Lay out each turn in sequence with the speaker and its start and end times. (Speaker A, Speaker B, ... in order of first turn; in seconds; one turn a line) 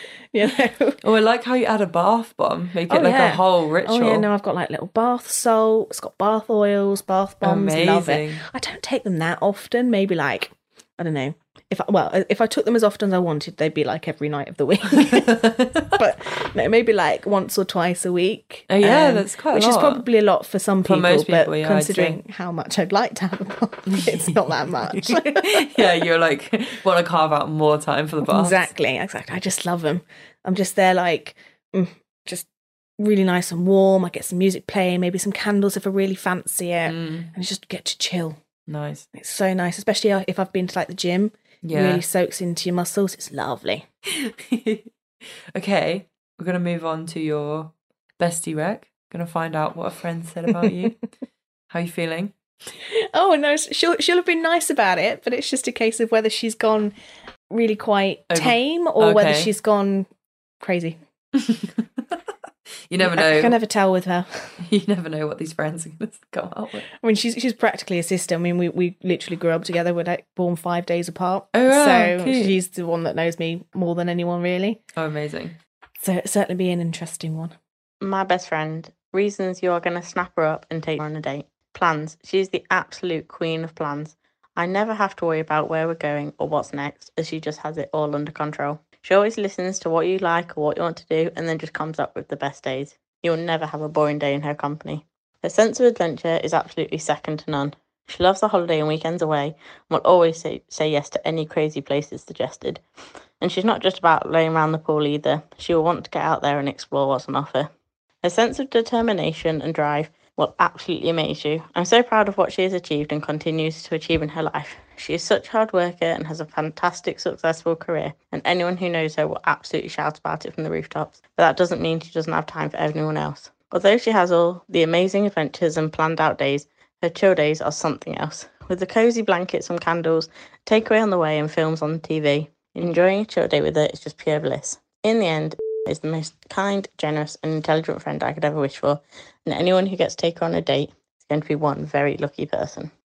Speaker A: 0.3-1.0
Speaker B: 1.0-4.3
Speaker A: 2.9-25.9
Speaker B: 7.4-8.4
Speaker B: 14.9-15.9
Speaker B: 18.7-20.1
Speaker B: 20.9-22.2
Speaker B: 23.9-24.4
Speaker B: 24.9-28.7
Speaker A: 28.3-32.5
Speaker A: 33.0-38.4
Speaker B: 36.9-37.3
Speaker B: 38.7-39.1
Speaker A: 39.1-43.9
Speaker B: 41.6-42.0
Speaker B: 44.1-44.9
Speaker B: 45.5-51.0
Speaker B: 51.7-52.3
Speaker A: 52.9-56.9
Speaker A: 57.5-60.1
Speaker B: 58.3-59.5
Speaker A: 60.6-61.0
Speaker B: 61.4-62.1
Speaker B: 62.9-63.6
Speaker A: 63.0-64.6
Speaker B: 64.6-66.9
Speaker A: 67.0-74.8
Speaker B: 71.5-72.6
Speaker B: 75.0-75.6
Speaker A: 76.0-77.5
Speaker C: 78.0-102.8
Speaker C: 103.4-107.7
Speaker C: 108.2-142.9